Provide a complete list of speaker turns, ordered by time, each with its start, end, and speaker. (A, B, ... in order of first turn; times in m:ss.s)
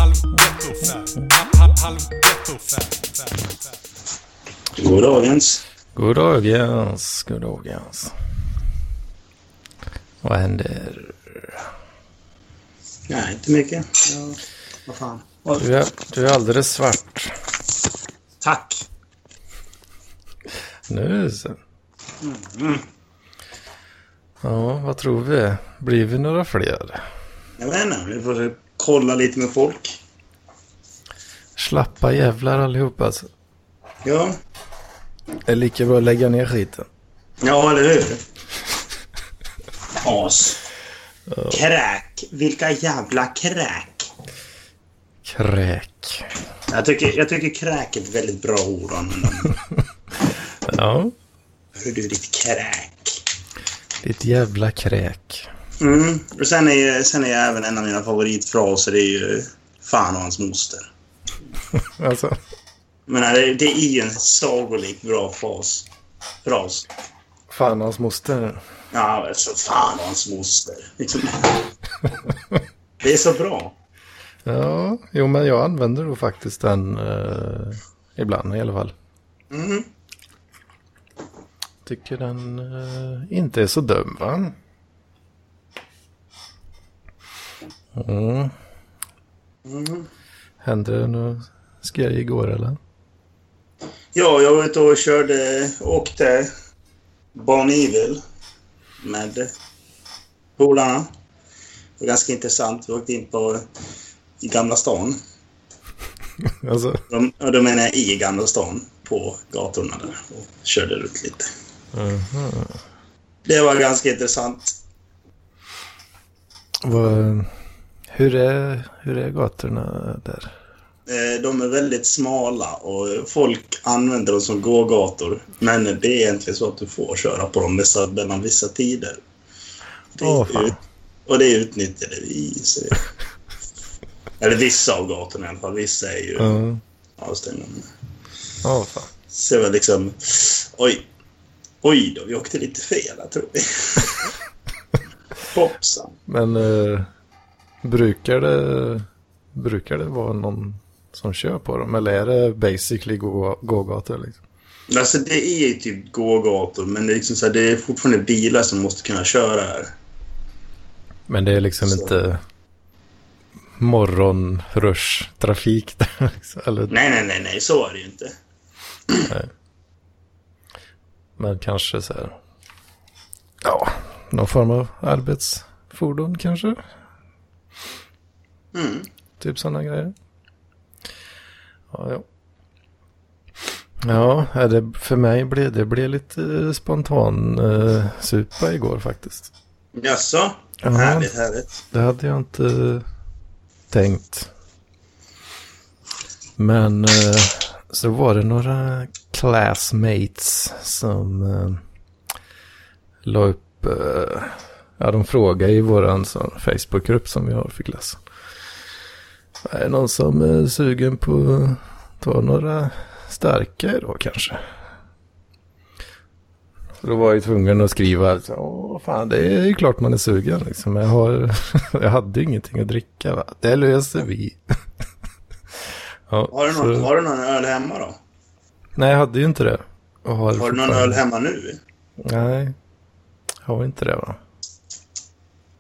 0:00.3-0:01.3 A
0:04.8-0:05.6 B
0:06.0-0:08.1 A
0:10.2-0:11.6 A
0:13.1-0:15.6 B
0:15.6-0:17.4 A
0:18.4-0:18.8 B
0:20.9-0:21.6 A
0:22.2-0:22.9 B
0:24.4-0:27.0 A
0:27.6-0:30.0 B
0:31.6-0:33.3 A
0:34.0-0:34.3 B
0:35.4-0:36.9 A
0:37.4-0:38.2 B
0:40.0-0:40.6 B
0:41.3-0:41.6 A
0:41.5-0:44.1 B
0:45.2-0:46.3 A
0:46.7-0:49.5 B
0:50.7-0:51.1 A
0:51.8-0:53.2 B
0:54.0-0:55.5 A
0:55.8-1:00.9 B
1:01.7-1:02.4 A
1:03.1-1:05.9 B
1:06.4-1:06.9 B
1:07.5-1:08.6 A
1:08.9-1:11.7 B
1:13.0-1:13.7 B
1:14.4-1:18.9 A
1:19.5-1:19.9 B
1:21.8-1:24.6 A
1:28.0-1:28.5 A
1:29.6-1:30.1 B
1:30.6-1:32.8 A
1:34.2-1:36.5 B
1:37.3-1:38.2 B
1:39.0-1:39.5 B
1:40.6-1:41.1 B
1:42.0-1:43.6 B
1:44.4-1:45.2 B
1:46.4-1:47.0 A
1:47.1-1:51.5 B
1:51.9-1:52.8 A
1:53.4-1:54.8 B
1:56.8-1:57.6 A
1:58.1-2:00.6 A
2:01.1-2:09.2 B
2:10.1-2:13.0 B
2:10.2-2:10.8 A
2:14.4-2:16.6 B
2:16.4-2:16.8 A
2:17.2-2:17.9 B
2:18.6-2:19.1 A
2:19.3-2:21.0 B
2:21.8-2:24.3 B
2:25.5-2:26.1 B
2:26.3-2:27.1 A
2:27.8-2:34.4 A
2:34.9-2:39.9 B
2:41.3-2:42.4 A
2:43.8-2:46.9 A
2:46.9-2:48.3 B
2:49.3-2:49.5 A
2:51.4-2:52.4 A
2:53.6-2:56.9 A
2:58.7-2:59.1 B
2:59.4-3:00.1 A
3:01.9-3:02.2 A
3:04.0-3:09.5 A
3:10.0-3:11.8 B
3:10.8-3:11.3 A
3:11.9-3:13.0 A
3:13.9-3:14.5 A
3:16.6-3:21.8 A
3:23.2-3:28.2 A
3:29.6-3:34.7 A
3:37.0-3:44.6 A
3:46.3-3:47.1 A
3:46.5-3:48.2 B
3:49.0-3:51.2 A
3:50.6-3:51.8 B
3:52.2-3:52.8 A
3:53.6-3:54.4 A